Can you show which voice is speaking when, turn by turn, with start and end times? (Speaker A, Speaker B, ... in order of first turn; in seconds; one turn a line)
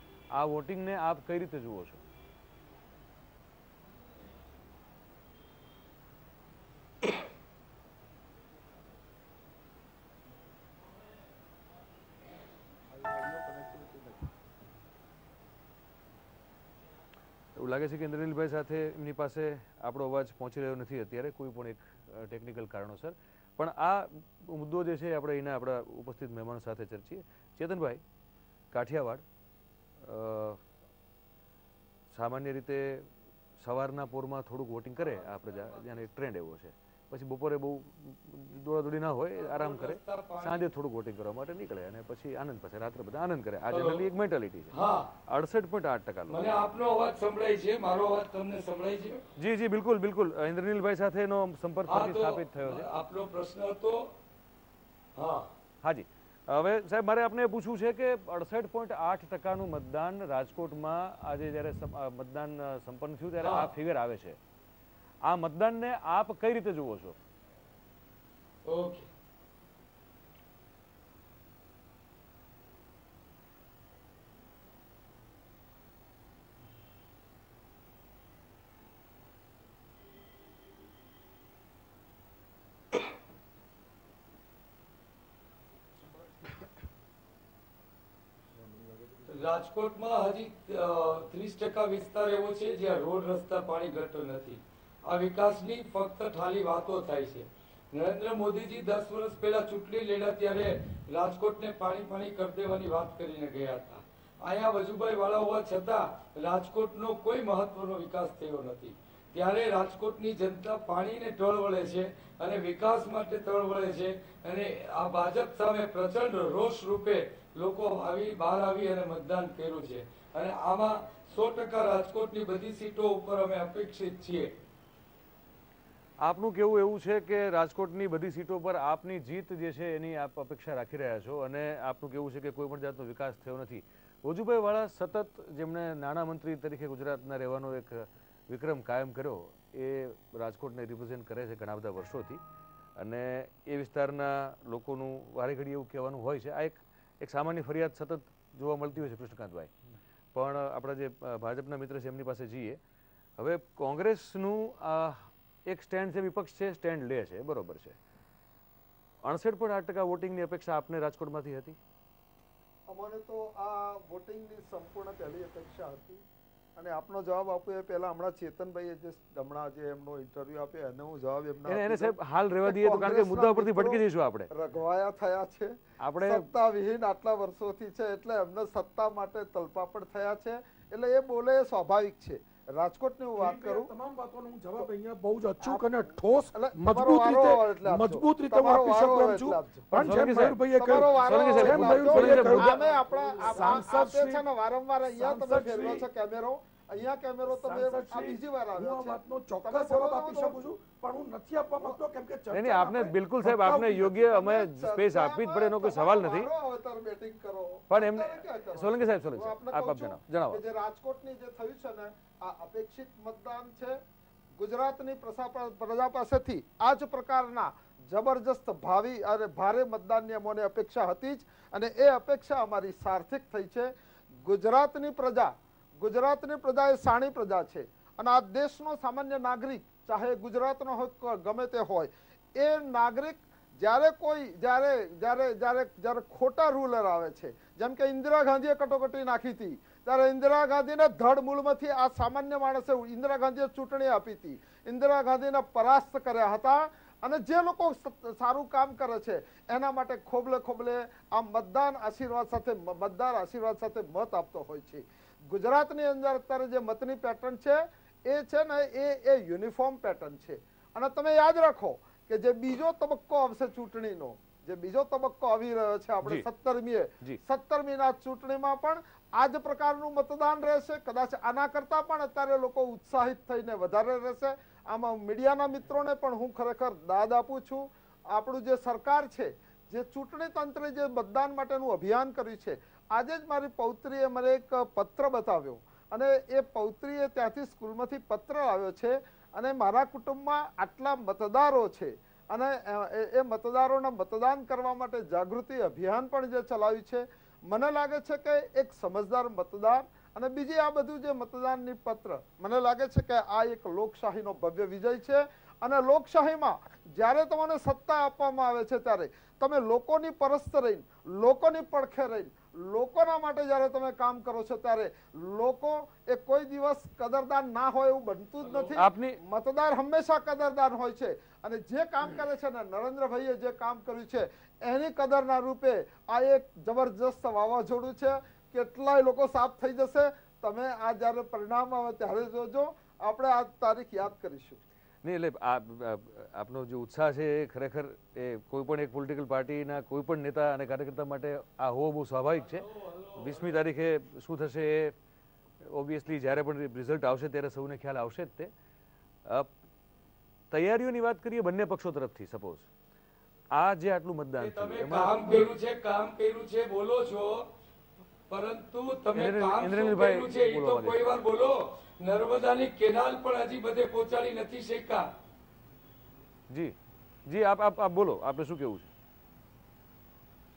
Speaker A: 0.3-2.0
Speaker B: 12.9-14.3
Speaker A: 17.6-28.0
Speaker A: 28.7-29.2
Speaker A: 30.0-30.6
Speaker A: 32.1-33.1
Speaker A: 33.6-44.7
Speaker C: 35.0-36.0
Speaker C: 39.4-40.7
Speaker C: 43.7-44.0
Speaker C: 44.7-45.1
Speaker A: 45.3-46.5
Speaker C: 46.3-49.2
Speaker A: 49.4-52.9
Speaker C: 51.9-54.0
Speaker C: 55.2-55.5
Speaker A: 55.8-64.4
Speaker A: 65.3-67.2
Speaker C: 68.7-69.1
Speaker D: 88.6-89.4
Speaker C: 89.3-124.5
Speaker A: 126.2-142.4
Speaker A: 143.0-149.7
Speaker A: 150.3-152.8
Speaker A: 153.4-158.0
Speaker A: 159.2-161.8
Speaker B: 162.9-166.2
Speaker B: 166.8-172.1
Speaker A: 171.7-174.5
Speaker B: 172.7-174.0
Speaker B: 174.6-175.7
Speaker A: 176.0-176.5
Speaker B: 176.2-183.9
Speaker D: 183.4-194.5
Speaker B: 185.6-185.9
Speaker B: 186.5-189.9
Speaker A: 189.9-192.7
Speaker B: 190.8-200.6
Speaker D: 195.1-196.1
Speaker D: 197.4-204.3
Speaker A: 202.5-206.5
Speaker B: 204.3-214.0
Speaker A: 207.9-210.6
Speaker B: 214.6-223.9
Speaker B: 224.4-334.8
Speaker C: 318.6-318.9
Speaker A: 319.0-319.4
Speaker A: 335.2-342.9
Speaker C: 342.6-343.8
Speaker A: 343.4-345.1
Speaker A: 345.9-348.7
Speaker A: 350.7-352.9
Speaker A: 353.8-355.6
Speaker C: 354.6-357.6
Speaker C: 358.5-365.3
Speaker A: 359.4-361.2
Speaker A: 367.5-369.1